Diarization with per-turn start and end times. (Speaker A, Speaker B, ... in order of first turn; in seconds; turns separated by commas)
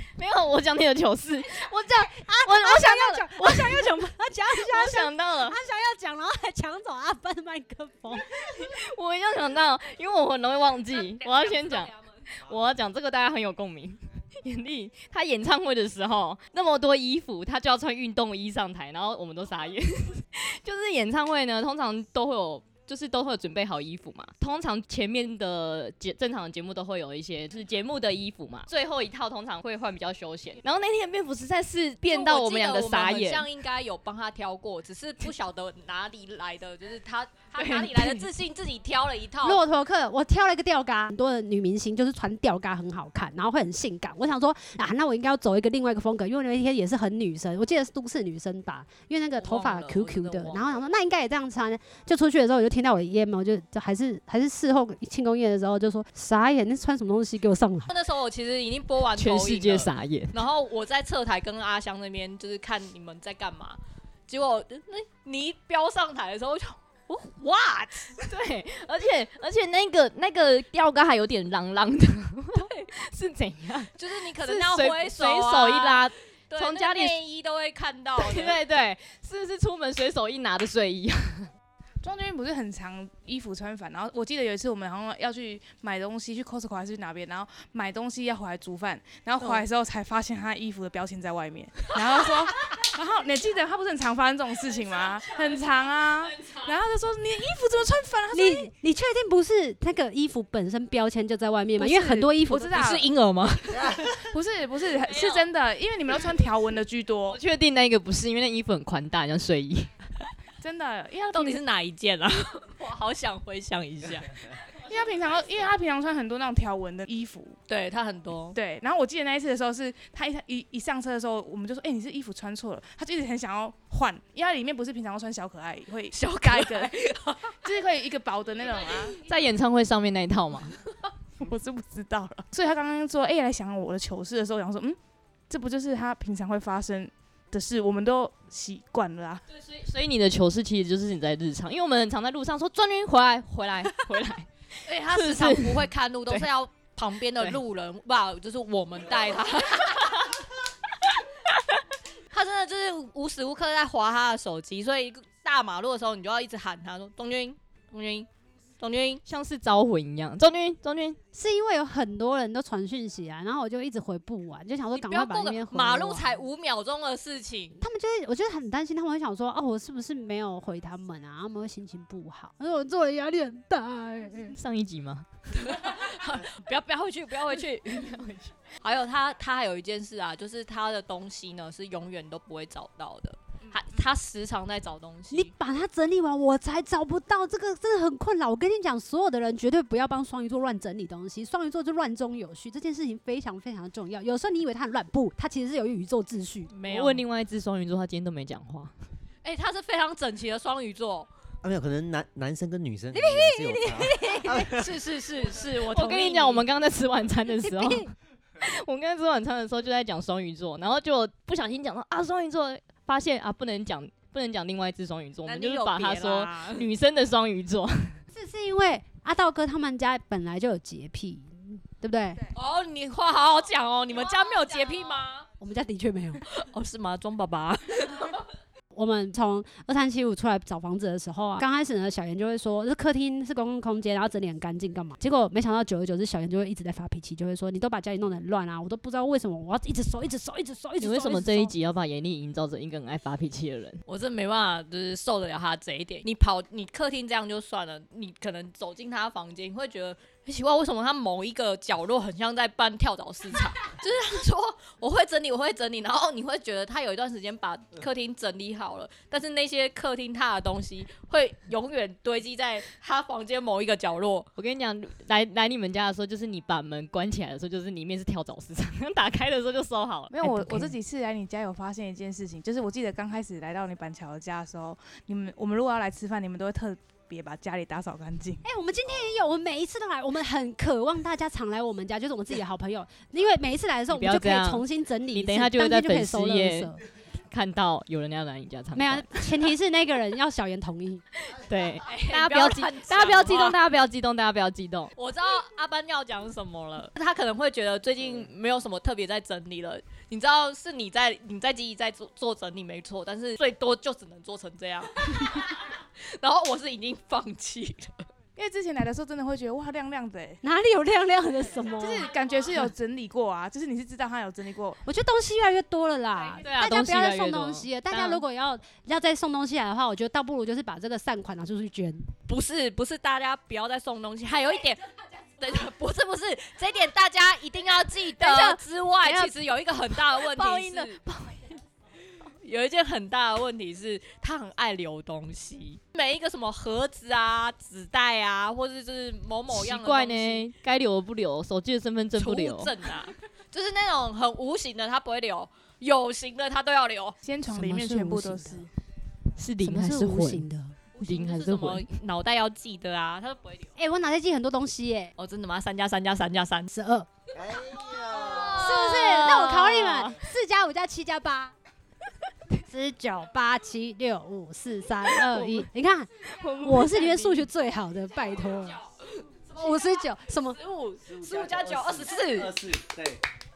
Speaker A: 0.2-5.6, Speaker B: 1.9-8.3, Speaker A: 8.3-33.5, Speaker C: 11.2-11.9, Speaker C: 32.1-39.6, Speaker A: 37.6-38.3, Speaker B: 39.4-57.9, Speaker C: 49.4-50.8, Speaker C: 57.9-68.2, Speaker A: 59.2-60.4, Speaker A: 68.2-77.1, Speaker C: 72.5-72.9, Speaker C: 74.0-78.6, Speaker A: 78.2-81.5, Speaker D: 82.0-98.7, Speaker B: 98.3-102.7, Speaker D: 101.8-103.1, Speaker C: 102.5-104.2, Speaker D: 104.0-107.4, Speaker A: 107.3-109.9, Speaker D: 110.6-111.6, Speaker C: 111.3-114.4, Speaker D: 114.8-117.6, Speaker C: 117.7-118.6, Speaker D: 118.5-126.9, Speaker C: 126.1-127.5, Speaker D: 127.6-129.2, Speaker A: 129.2-130.7, Speaker D: 131.4-135.0, Speaker D: 135.5-139.4, Speaker A: 139.5-146.5, Speaker C: 144.8-150.3, Speaker C: 152.3-158.3, Speaker C: 158.8-159.2, Speaker A: 159.2-161.2, Speaker B: 161.3-166.4, Speaker C: 164.9-167.8, Speaker B: 167.8-174.6, Speaker A: 174.5-175.2, Speaker C: 175.5-178.2, Speaker A: 177.5-178.6, Speaker C: 178.8-185.5, Speaker B: 185.3-196.7, Speaker C: 196.7-197.2, Speaker A: 196.9-198.9, Speaker C: 199.4-201.3, Speaker E: 201.6-204.8, Speaker B: 203.1-204.7, Speaker C: 204.6-206.6, Speaker A: 205.9-218.2, Speaker B: 207.5-208.1, Speaker C: 215.4-216.9, Speaker B: 218.3-222.4, Speaker C: 222.5-225.4, Speaker B: 225.6-226.4, Speaker C: 226.4-228.4, Speaker B: 228.9-241.7, Speaker A: 241.0-244.0, Speaker C: 244.1-264.5, Speaker A: 264.6-270.4, Speaker D: 270.3-278.6, Speaker B: 270.4-270.9, Speaker B: 278.6-287.0, Speaker A: 284.1-289.6, Speaker B: 288.9-291.2, Speaker A: 291.5-295.1, Speaker C: 292.0-293.8, Speaker C: 295.1-308.2, Speaker D: 308.6-310.6, Speaker B: 310.6-312.3, Speaker D: 312.0-315.0, Speaker B: 315.1-322.3, Speaker A: 316.6-318.4, Speaker C: 322.5-325.0, Speaker C: 325.6-331.2, Speaker A: 328.4-329.5, Speaker A: 330.1-331.7, Speaker C: 332.6-340.7, Speaker A: 339.7-342.9, Speaker C: 342.4-347.4, Speaker D: 347.4-348.9, Speaker B: 347.7-348.9, Speaker A: 349.6-350.6, Speaker B: 349.8-351.0, Speaker C: 351.1-354.0, Speaker A: 351.2-352.1, Speaker B: 353.9-355.3, Speaker C: 355.4-356.9, Speaker B: 356.9-357.3, Speaker E: 357.6-358.8, Speaker C: 357.8-359.3, Speaker B: 358.8-361.7, Speaker A: 358.8-360.4, Speaker B: 362.8-369.0, Speaker A: 365.3-365.9, Speaker A: 366.4-367.7, Speaker C: 369.4-370.1, Speaker B: 369.7-370.8, Speaker C: 370.6-372.9, Speaker E: 371.2-373.4